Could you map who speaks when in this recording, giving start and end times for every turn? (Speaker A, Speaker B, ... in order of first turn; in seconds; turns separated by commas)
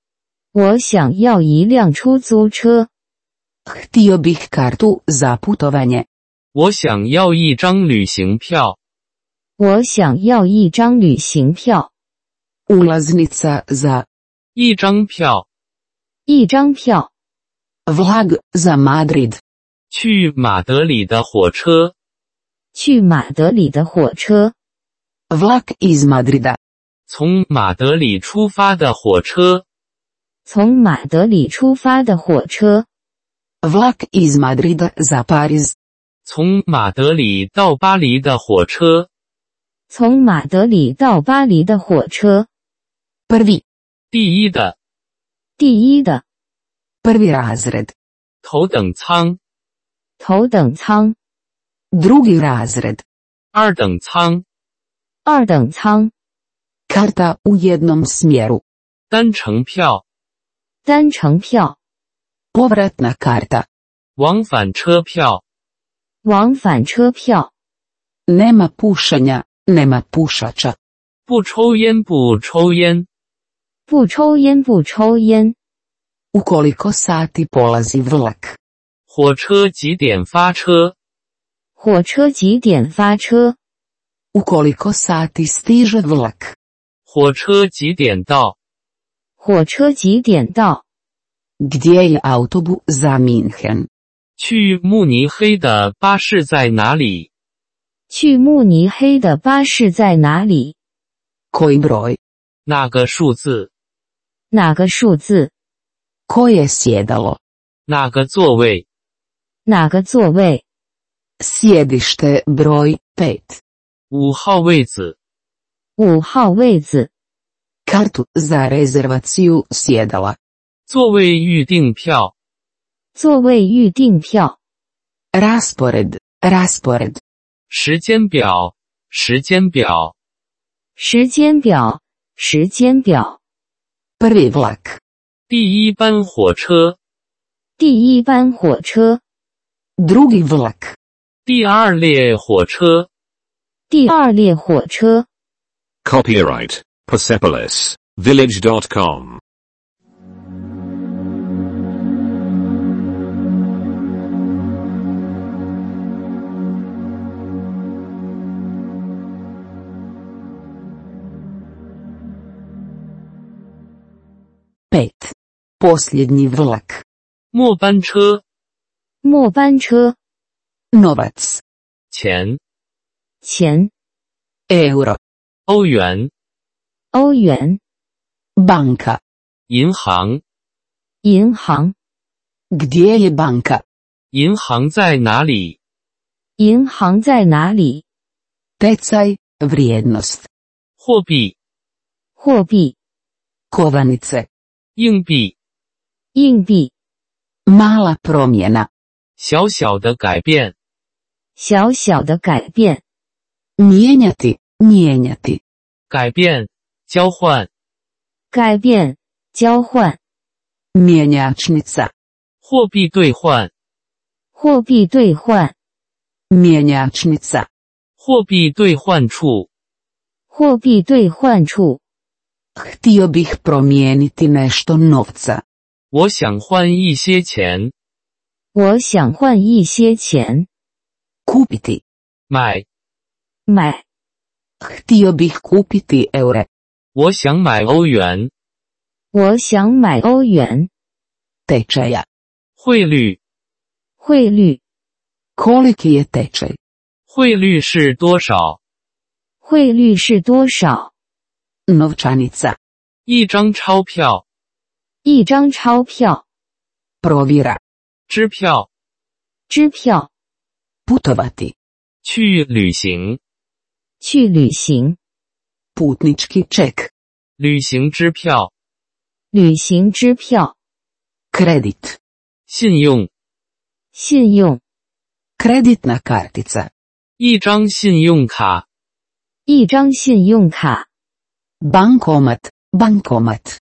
Speaker A: 0.5-2.9, Speaker B: 3.7-6.1, Speaker C: 6.5-8.8, Speaker A: 9.6-11.9, Speaker B: 12.7-14.1, Speaker C: 14.6-15.4, Speaker A: 16.3-17.1, Speaker B: 17.9-19.4, Speaker C: 19.9-21.9, Speaker A: 22.8-24.5, Speaker B: 25.3-26.6, Speaker C: 27.1-29.6, Speaker A: 30.5-32.9, Speaker B: 33.6-35.8, Speaker C: 36.3-39.1, Speaker A: 39.9-42.5, Speaker B: 43.3-43.6, Speaker C: 44.1-44.8, Speaker A: 45.6-46.2, Speaker B: 47.0-47.9, Speaker C: 48.4-49.4, Speaker A: 50.2-51.2, Speaker B: 51.9-53.0, Speaker C: 53.5-54.4, Speaker A: 55.2-56.1, Speaker B: 56.9-58.6, Speaker C: 59.1-60.0, Speaker A: 60.9-61.8, Speaker B: 62.5-63.7, Speaker C: 64.2-65.4, Speaker A: 66.2-67.5, Speaker B: 68.3-70.8, Speaker C: 71.3-73.1, Speaker A: 73.9-75.5, Speaker B: 76.3-78.6, Speaker C: 79.1-80.9, Speaker A: 81.8-83.6, Speaker B: 84.3-86.5, Speaker C: 87.1-88.6, Speaker A: 89.4-90.8, Speaker B: 91.6-93.9, Speaker C: 94.4-97.3, Speaker A: 98.1-100.8, Speaker B: 101.5-102.2, Speaker C: 102.7-103.7, Speaker A: 104.5-105.5, Speaker B: 106.3-107.4, Speaker C: 107.9-108.8, Speaker A: 109.7-110.6, Speaker B: 111.4-113.6, Speaker C: 114.1-115.2, Speaker A: 116.0-117.1, Speaker B: 117.9-120.4, Speaker C: 120.9-122.3, Speaker A: 123.2-124.6, Speaker B: 125.3-127.2, Speaker C: 127.7-130.1, Speaker A: 131.0-133.4, Speaker B: 134.2-135.0, Speaker C: 135.5-137.0, Speaker A: 137.8-139.2, Speaker B: 140.0-141.0, Speaker C: 141.5-143.1, Speaker A: 143.9-145.3, Speaker D: 146.0-149.4, Speaker B: 164.9-167.0, Speaker C: 167.5-168.4, Speaker A: 169.2-170.2, Speaker B: 170.9-171.6, Speaker C: 172.1-172.6, Speaker A: 173.4-173.9, Speaker B: 174.7-175.2, Speaker C: 175.7-176.3, Speaker A: 177.1-177.8, Speaker B: 178.6-179.2, Speaker C: 179.7-180.4, Speaker A: 181.2-181.9, Speaker B: 182.7-183.8, Speaker C: 184.3-185.8, Speaker A: 186.6-188.0, Speaker B: 188.8-190.5, Speaker C: 191.0-191.6, Speaker A: 192.4-193.0, Speaker B: 193.7-194.5, Speaker C: 195.0-195.5, Speaker A: 196.3-196.9, Speaker B: 197.7-198.9, Speaker C: 199.4-200.7, Speaker A: 201.6-203.0, Speaker B: 203.8-205.6, Speaker C: 206.1-207.7, Speaker A: 208.5-210.2, Speaker B: 210.9-212.1, Speaker C: 212.6-213.7, Speaker A: 214.6-215.7, Speaker B: 216.5-217.7, Speaker C: 218.2-219.7, Speaker A: 220.5-222.0, Speaker B: 222.8-225.6, Speaker C: 226.1-227.9, Speaker A: 228.7-230.7, Speaker B: 231.5-232.0, Speaker C: 232.5-232.8, Speaker A: 233.7-234.0, Speaker B: 234.8-236.7, Speaker C: 237.2-238.5, Speaker A: 239.3-240.9, Speaker B: 241.7-242.3, Speaker C: 242.8-243.4, Speaker A: 244.2-244.8, Speaker B: 245.6-246.8, Speaker C: 247.3-248.8, Speaker A: 249.6-251.1, Speaker B: 251.9-252.8, Speaker C: 253.3-254.4, Speaker A: 255.2-256.4, Speaker B: 257.2-257.8, Speaker C: 258.3-258.9, Speaker A: 259.7-260.3, Speaker B: 261.1-261.7, Speaker C: 262.2-263.4, Speaker A: 264.2-265.2, Speaker B: 266.0-267.1, Speaker C: 267.6-268.7, Speaker A: 269.5-270.8, Speaker B: 271.5-272.2, Speaker C: 272.7-273.3, Speaker A: 274.1-274.8, Speaker B: 275.6-276.9, Speaker C: 277.4-278.9, Speaker A: 279.7-281.1, Speaker B: 281.8-283.8